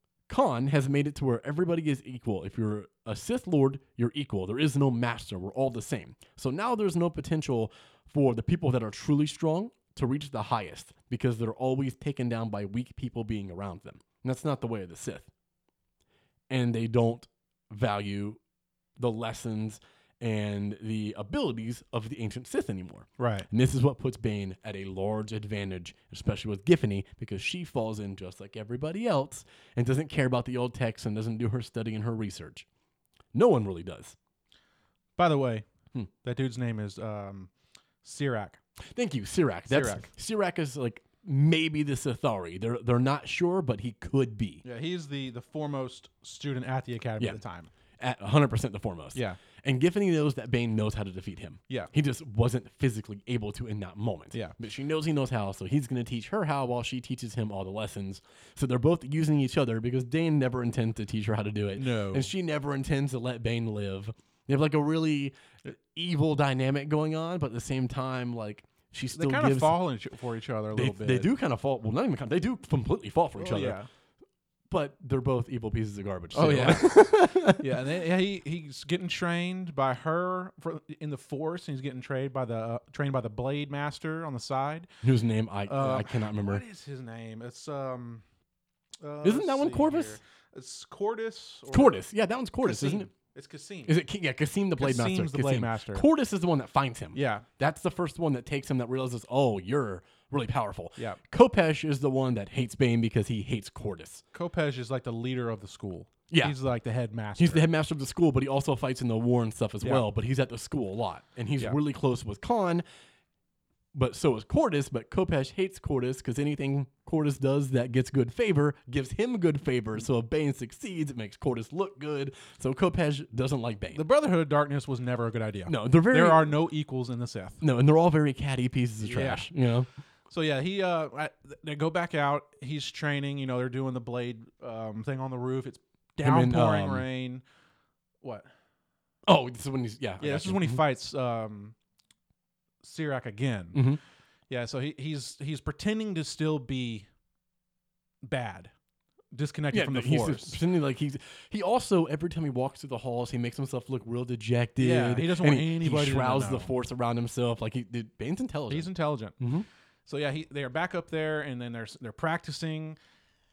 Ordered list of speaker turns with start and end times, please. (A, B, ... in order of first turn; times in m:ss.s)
0:00.3-0:15.3 A
0:16.5-0:18.4 A
0:19.0-0:32.7 A
0:23.2-0:23.5 B
0:33.3-0:34.2 A
0:35.2-0:35.7 B
0:36.2-0:37.5 B
0:38.0-0:38.6 B
0:38.9-0:44.6 A
0:39.7-0:40.1 B
0:44.6-0:47.7 B
0:48.0-1:09.8 A
0:49.1-0:49.4 B
1:01.8-1:02.3 B
1:09.1-1:11.3 B
1:10.7-1:13.8 A
1:13.4-1:13.9 B
1:14.7-1:17.6 A
1:16.3-1:24.9 B
1:25.0-1:26.6 A
1:25.7-1:28.2 B
1:29.0-1:32.0 B
1:29.2-1:30.2 A
1:31.7-1:33.1 A
1:32.6-1:34.0 B
1:33.9-1:44.2 A
1:34.8-1:36.0 B
1:37.1-1:37.5 B
1:44.3-1:47.7 B
1:46.3-1:46.6 A
1:47.4-1:52.8 A
1:53.9-2:04.0 A
2:03.9-2:07.6 B
2:05.7-2:06.6 A
2:07.6-2:09.9 A
2:09.0-2:09.5 B
2:10.3-2:17.4 B
2:16.2-2:17.1 A
2:18.2-2:18.5 B
2:19.3-2:20.8 A
2:20.2-2:21.8 B
2:22.8-2:23.8 B
2:23.7-2:24.0 A
2:24.5-2:27.1 B
2:28.2-2:28.7 B
2:29.3-2:30.6 B
2:29.7-2:39.7 A
2:34.8-2:36.7 B
2:38.7-2:39.4 B
2:40.1-2:43.0 B